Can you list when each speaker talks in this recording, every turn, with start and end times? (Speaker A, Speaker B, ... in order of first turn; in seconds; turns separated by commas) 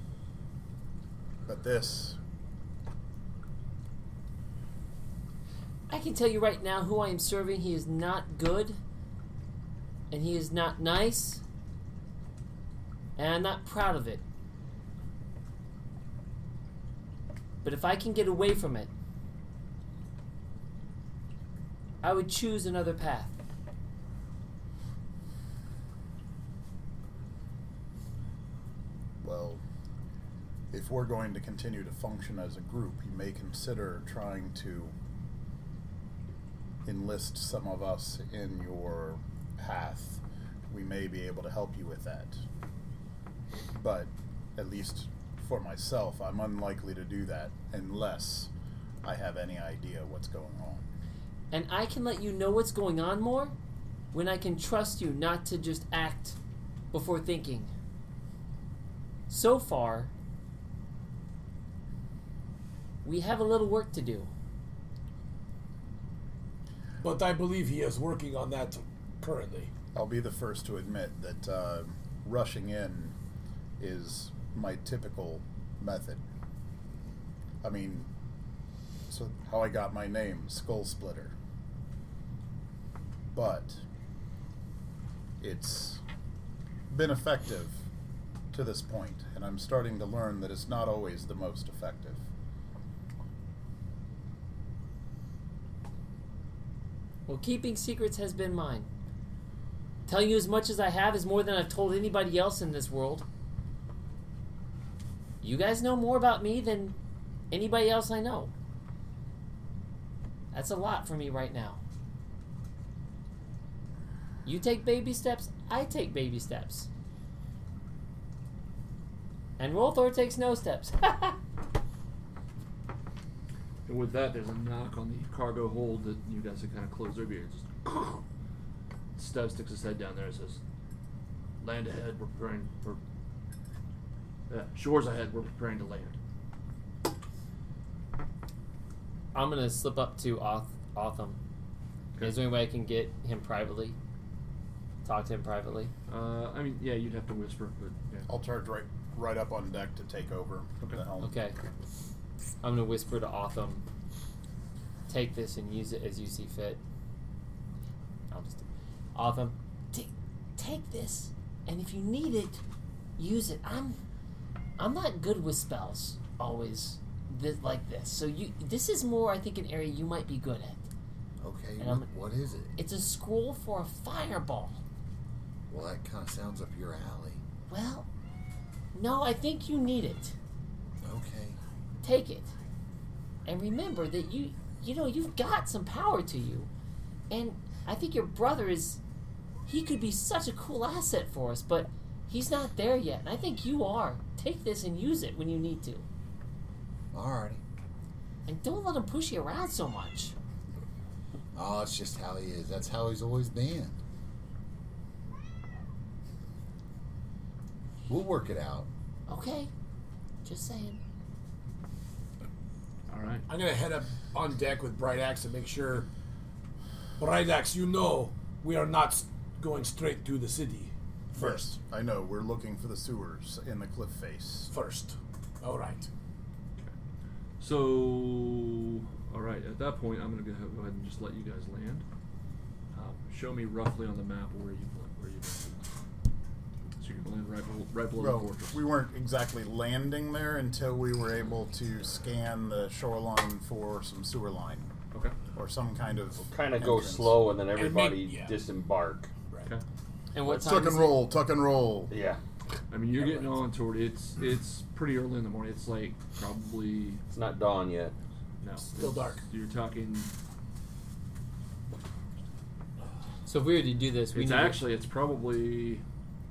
Speaker A: 1.5-2.2, Speaker B: 5.9-8.8, Speaker B: 10.1-11.4, Speaker B: 13.2-14.2, Speaker B: 17.6-18.9, Speaker B: 22.0-23.4, Speaker A: 29.2-29.6, Speaker A: 30.7-34.9, Speaker A: 36.9-42.4, Speaker A: 43.7-48.5, Speaker A: 49.0-50.8, Speaker B: 51.5-53.5, Speaker B: 54.1-56.4, Speaker B: 56.9-57.7, Speaker B: 59.3-60.1, Speaker B: 63.0-64.3, Speaker C: 67.0-69.7, Speaker A: 70.0-73.2, Speaker A: 73.8-76.2, Speaker A: 77.6-78.1, Speaker A: 79.1-81.3, Speaker A: 83.3-83.8, Speaker A: 85.4-86.0, Speaker A: 86.9-87.8, Speaker A: 88.5-92.2, Speaker B: 97.3-98.9, Speaker B: 100.1-103.3, Speaker B: 105.4-107.0, Speaker B: 107.5-108.5, Speaker B: 110.5-111.8, Speaker B: 114.5-116.9, Speaker B: 119.6-121.4, Speaker D: 123.8-128.2, Speaker D: 129.2-130.6, Speaker D: 131.6-133.0, Speaker D: 134.5-136.2, Speaker B: 139.3-141.4, Speaker B: 142.2-144.0, Speaker B: 145.0-145.9, Speaker D: 146.1-148.3, Speaker A: 148.3-151.4, Speaker B: 151.2-151.6, Speaker B: 152.6-153.8, Speaker B: 155.1-156.8, Speaker B: 158.3-162.6, Speaker B: 163.2-164.0, Speaker B: 164.8-170.9, Speaker E: 171.4-172.8, Speaker B: 171.8-172.1, Speaker B: 172.8-174.8, Speaker E: 175.7-177.4, Speaker B: 177.7-178.1, Speaker B: 178.9-180.4, Speaker E: 181.0-181.6, Speaker B: 182.0-182.5, Speaker B: 183.5-186.7, Speaker B: 187.3-189.0, Speaker B: 189.7-196.1, Speaker E: 197.1-197.6, Speaker B: 198.5-200.3, Speaker E: 201.5-204.0, Speaker E: 208.1-208.9, Speaker B: 209.3-209.7, Speaker B: 210.4-211.0, Speaker D: 213.1-213.4, Speaker C: 213.5-216.1, Speaker C: 217.2-221.7, Speaker A: 221.3-224.7, Speaker C: 224.7-226.1, Speaker D: 227.6-232.1, Speaker D: 232.9-235.8, Speaker D: 237.0-238.8, Speaker A: 238.2-244.9, Speaker A: 245.6-247.4, Speaker F: 246.5-249.3, Speaker C: 247.7-248.6, Speaker B: 250.3-251.2, Speaker A: 250.5-252.1, Speaker F: 252.1-252.4, Speaker D: 252.9-257.2, Speaker F: 253.2-253.5, Speaker F: 257.3-258.1, Speaker D: 258.6-260.3, Speaker C: 258.9-259.4, Speaker B: 263.5-264.8, Speaker D: 264.3-266.0